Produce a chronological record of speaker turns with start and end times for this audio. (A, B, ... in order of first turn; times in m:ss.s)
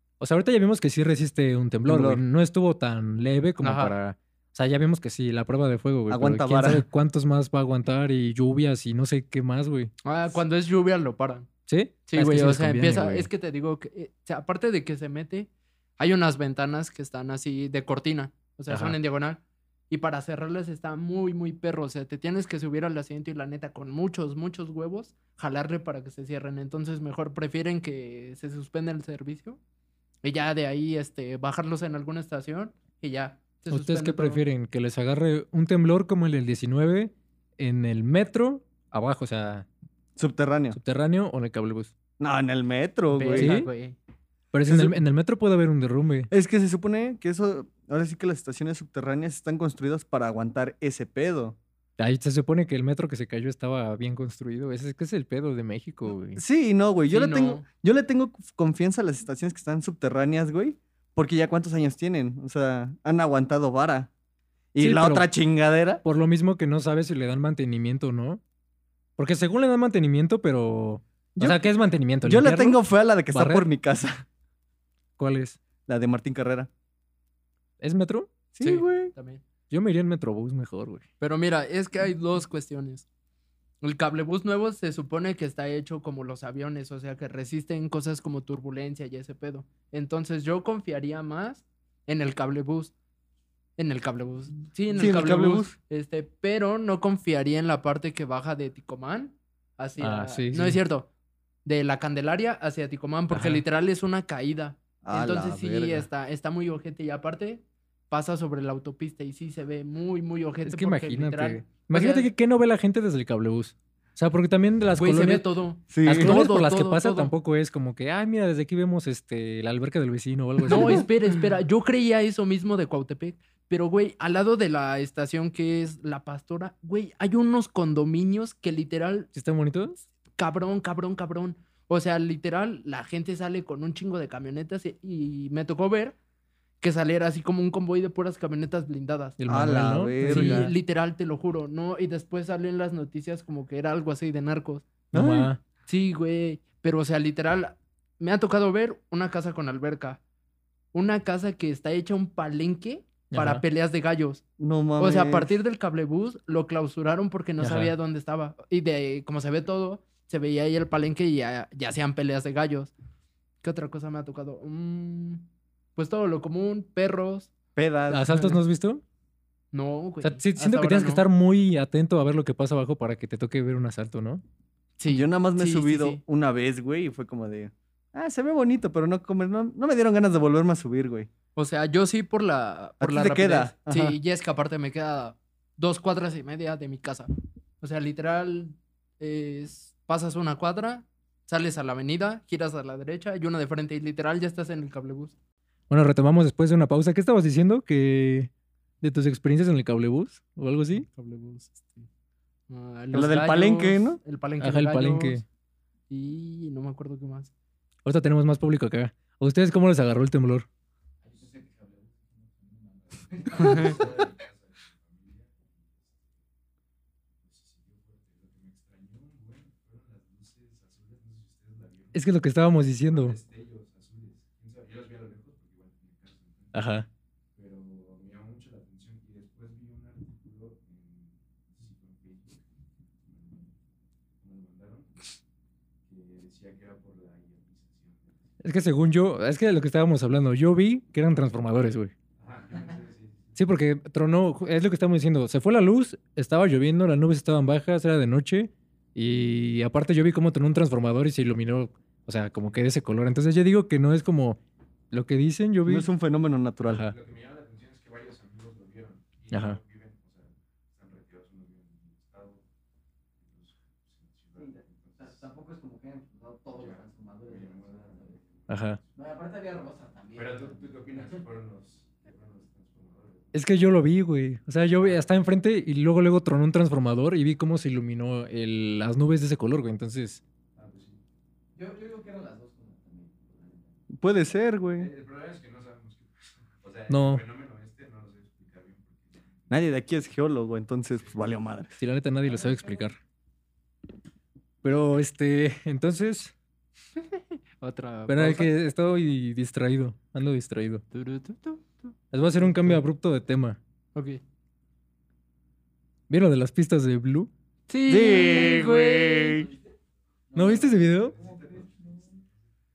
0:00.2-0:09.9 A
0:01.8-0:02.2 B
0:03.6-0:03.9 C
0:06.1-0:06.8 B
0:10.0-0:11.5 C
0:11.7-0:13.3 A
0:12.1-0:29.6 C
0:18.7-0:19.0 A
0:30.2-0:34.4 C
0:33.7-0:39.7 A
0:40.2-0:40.8 B
0:40.7-0:41.9 A
0:42.2-0:43.6 B
0:43.1-0:44.0 C
0:43.4-0:43.7 A
0:44.5-0:46.3 A
0:44.7-0:45.0 B
0:46.3-0:51.6 B
0:52.0-0:56.4 A
0:56.4-1:04.1 B
0:57.1-0:57.6 C
1:04.7-1:06.0 B
1:04.8-1:05.3 A
1:06.0-1:08.4 A
1:09.2-1:12.8 A
1:11.4-1:11.6 B
1:12.2-1:14.2 B
1:13.3-1:13.7 A
1:15.2-1:15.6 A
1:15.9-1:16.7 B
1:17.8-1:18.3 A
1:18.5-1:19.1 B
1:18.6-1:19.4 C
1:19.7-1:21.0 A
1:21.2-1:23.0 C
1:23.8-1:32.9 C
1:33.8-1:41.1 C
1:34.9-1:35.7 B
1:40.0-1:40.8 A
1:41.6-1:52.3 C
1:43.3-1:43.6 A
1:45.0-1:46.1 B
1:50.6-1:55.4 A
1:55.0-1:57.3 C
1:55.9-1:56.4 B
1:56.0-2:01.1 A
2:00.7-2:09.3 C
2:09.3-2:10.0 A
2:10.4-2:16.2 C
2:16.8-2:19.4 C
2:19.4-2:20.7 A
2:19.5-2:20.7 B
2:20.2-2:24.9 C
2:25.1-2:25.5 B
2:25.1-2:25.6 A
2:25.9-2:30.2 C
2:30.9-2:34.4 C
2:33.3-2:33.6 A
2:34.6-2:35.5 B
2:35.0-2:42.9 C
2:37.6-2:37.9 A
2:43.6-2:45.4 C
2:46.0-2:47.5 C
2:47.8-2:48.2 B
2:48.1-2:49.0 A
2:48.3-2:48.6 C
2:49.7-2:51.2 C
2:50.2-2:54.4 A
2:55.0-2:56.2 C
2:55.1-3:01.3 B
3:01.6-3:15.3 C
3:03.0-3:04.2 B
3:15.9-3:18.5 A
3:19.0-3:21.1 A
3:21.0-3:22.1 C
3:22.7-3:25.4 C
3:23.1-3:24.2 B
3:24.6-3:25.4 A
3:26.1-3:27.5 C
3:28.0-3:30.6 A
3:31.2-3:34.3 D
3:33.6-3:36.4 E
3:33.6-3:33.9 C
3:37.3-3:42.3 E
3:42.1-3:43.4 A
3:42.9-3:47.0 E
3:46.7-3:47.1 A
3:47.5-3:52.6 E
3:53.2-3:53.7 E
3:54.4-3:55.2 E
3:56.0-3:58.4 E
3:58.6-4:02.1 A
4:02.4-4:03.6 E
4:03.6-4:14.6 A
4:15.1-4:16.1 A
4:15.8-4:17.0 B
4:16.8-4:17.1 A
4:17.0-4:22.6 E
4:19.5-4:19.8 A
4:23.4-4:25.4 E
4:24.6-4:28.4 D
4:26.7-4:29.1 E
4:28.7-4:29.0 A
4:29.1-4:31.2 D
4:30.3-4:33.5 E
4:33.5-4:40.4 A
4:35.0-4:35.3 E
4:40.7-4:41.2 E
4:41.7-4:43.9 D
4:44.2-4:45.1 B
4:44.9-4:49.6 E
4:47.1-4:47.4 A
4:49.7-4:52.0 B
4:52.0-4:53.2 A
4:52.7-4:53.0 D
4:54.8-4:56.5 A
4:57.2-4:58.7 C
4:58.3-5:01.0 A
5:01.1-5:03.0 C
5:02.3-5:03.8 A
5:04.1-5:04.4 C
5:06.3-5:07.5 A
5:07.9-5:09.7 C
5:08.0-5:09.7 B
5:10.5-5:12.3 D
5:10.5-5:11.4 A
5:11.1-5:12.6 E